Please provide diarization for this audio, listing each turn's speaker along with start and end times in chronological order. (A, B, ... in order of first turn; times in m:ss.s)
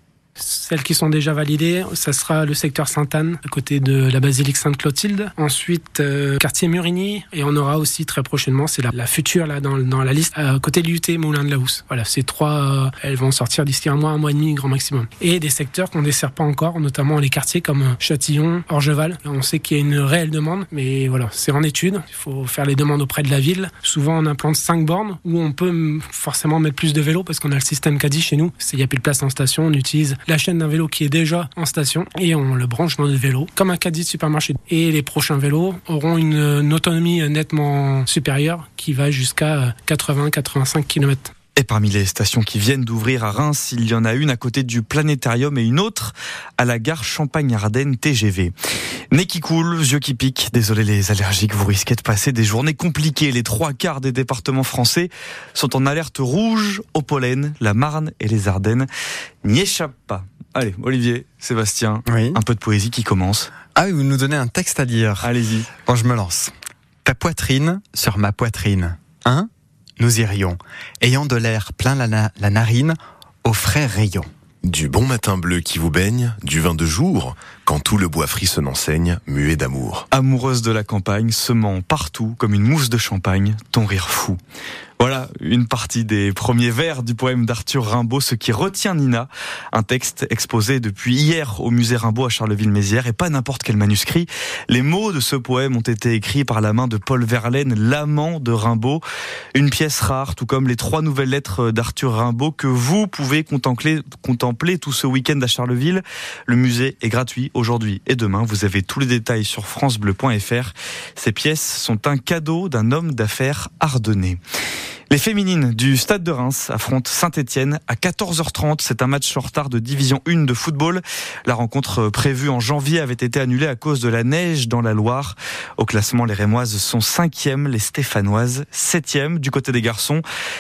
0:00.4-0:41.3 A
0:41.6-0:48.5 B
0:49.1-0:58.9 B
0:59.4-1:03.5 B
1:02.1-1:02.4 C
1:03.8-1:05.3 C
1:05.2-1:05.7 B
1:05.8-1:06.5 C
1:07.0-1:14.3 C
1:14.6-1:20.0 D
1:20.1-1:24.4 B
1:25.0-1:39.0 B
1:39.5-1:54.4 B
1:55.1-2:10.2 B